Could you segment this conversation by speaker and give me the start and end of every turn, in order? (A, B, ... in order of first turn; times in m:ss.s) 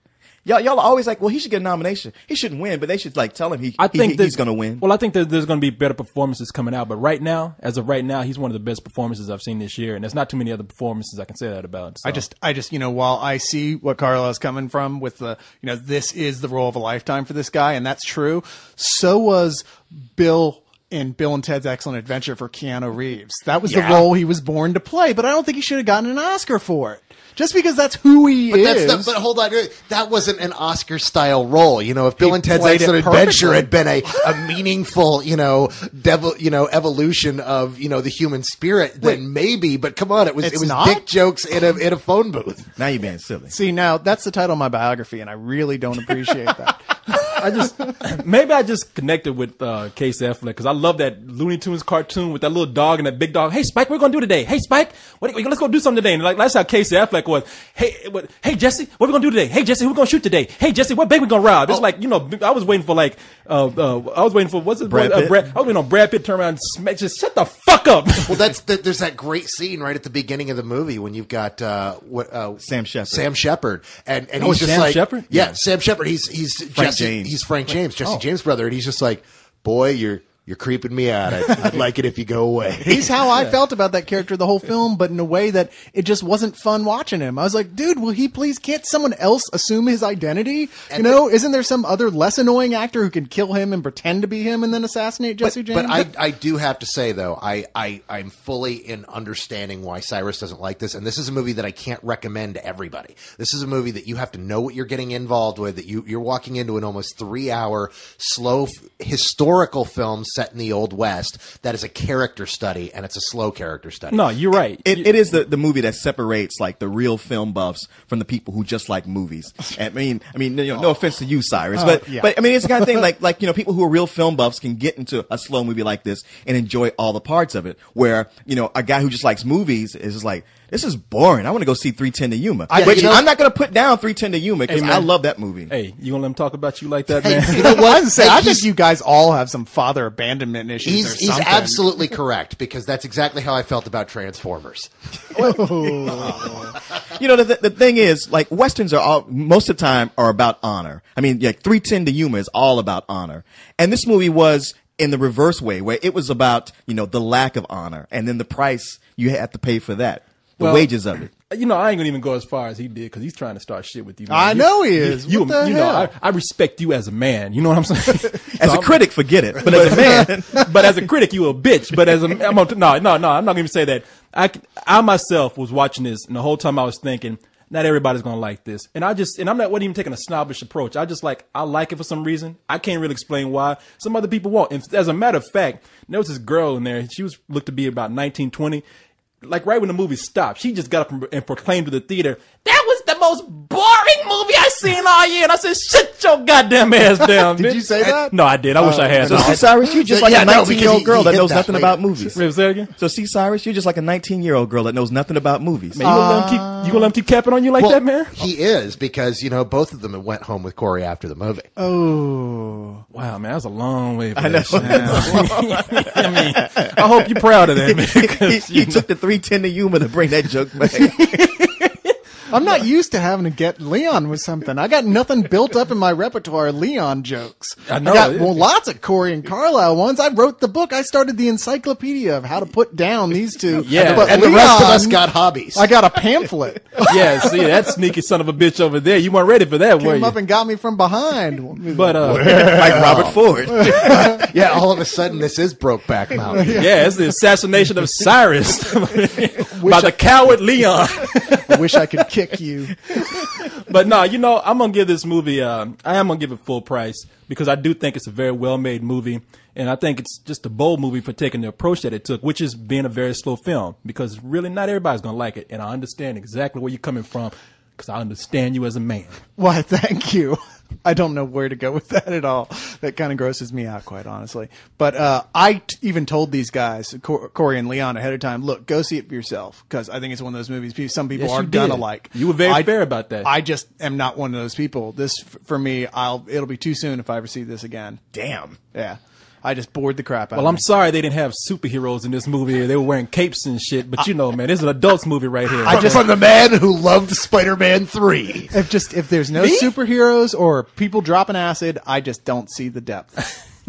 0:00.4-0:04.8 A
0:03.8-0:12.2 B
0:12.0-0:29.1 C
0:23.6-0:24.1 D
0:28.5-0:42.7 D
0:32.2-0:33.7 C
0:40.4-0:41.0 C
0:42.8-0:43.5 A
0:43.5-0:47.2 C
0:47.4-1:08.5 B
1:04.9-1:05.4 A
1:08.3-1:23.2 D
1:12.6-1:13.2 A
1:14.4-1:15.3 B
1:15.3-1:15.6 A
1:16.7-1:17.3 A
1:22.8-1:36.1 C
1:30.9-1:31.2 D
1:35.4-1:54.2 D
1:54.1-1:55.1 B
1:54.8-2:15.7 A
2:01.7-2:03.0 C
2:12.7-2:13.2 C
2:12.8-2:13.2 D
2:14.7-2:15.1 B
2:15.7-2:17.9 B
2:17.1-2:18.7 D
2:17.5-2:22.0 C
2:20.8-2:26.7 D
2:25.4-2:26.6 C
2:26.1-2:26.6 A
2:27.1-2:41.3 A
2:40.6-2:40.9 B
2:41.4-2:49.0 B
2:44.3-2:46.1 C
2:48.6-2:50.4 A
2:49.6-3:08.8 B
2:49.8-2:50.7 C
3:09.4-3:19.6 B
3:17.2-3:19.5 C
3:19.2-3:22.4 A
3:19.3-3:22.0 D
3:22.3-3:22.9 B
3:22.9-3:26.0 A
3:25.9-3:28.3 B
3:26.0-3:27.1 C
3:27.8-3:31.7 D
3:31.8-3:33.0 C
3:33.1-3:39.0 B
3:34.4-3:41.5 A
3:34.8-3:35.3 C
3:41.5-3:42.1 B
3:42.5-3:55.2 C
3:47.8-3:48.6 B
3:53.7-3:54.4 B
3:54.2-3:55.9 D
3:55.7-3:57.6 C
3:57.0-4:00.4 B
4:00.0-4:03.2 C
4:01.9-4:02.7 B
4:02.2-4:07.0 D
4:02.4-4:04.4 A
4:03.7-4:04.4 C
4:06.6-4:07.0 C
4:06.8-4:11.9 B
4:09.6-4:10.2 C
4:11.6-4:13.3 C
4:13.2-4:29.4 B
4:29.6-4:48.2 C
4:41.3-4:43.5 B
4:48.3-4:48.8 A
4:48.9-4:50.8 C
4:50.5-4:56.2 B
4:55.8-4:58.8 D
4:55.9-4:56.2 C
4:58.7-5:03.5 C
4:59.6-4:59.9 B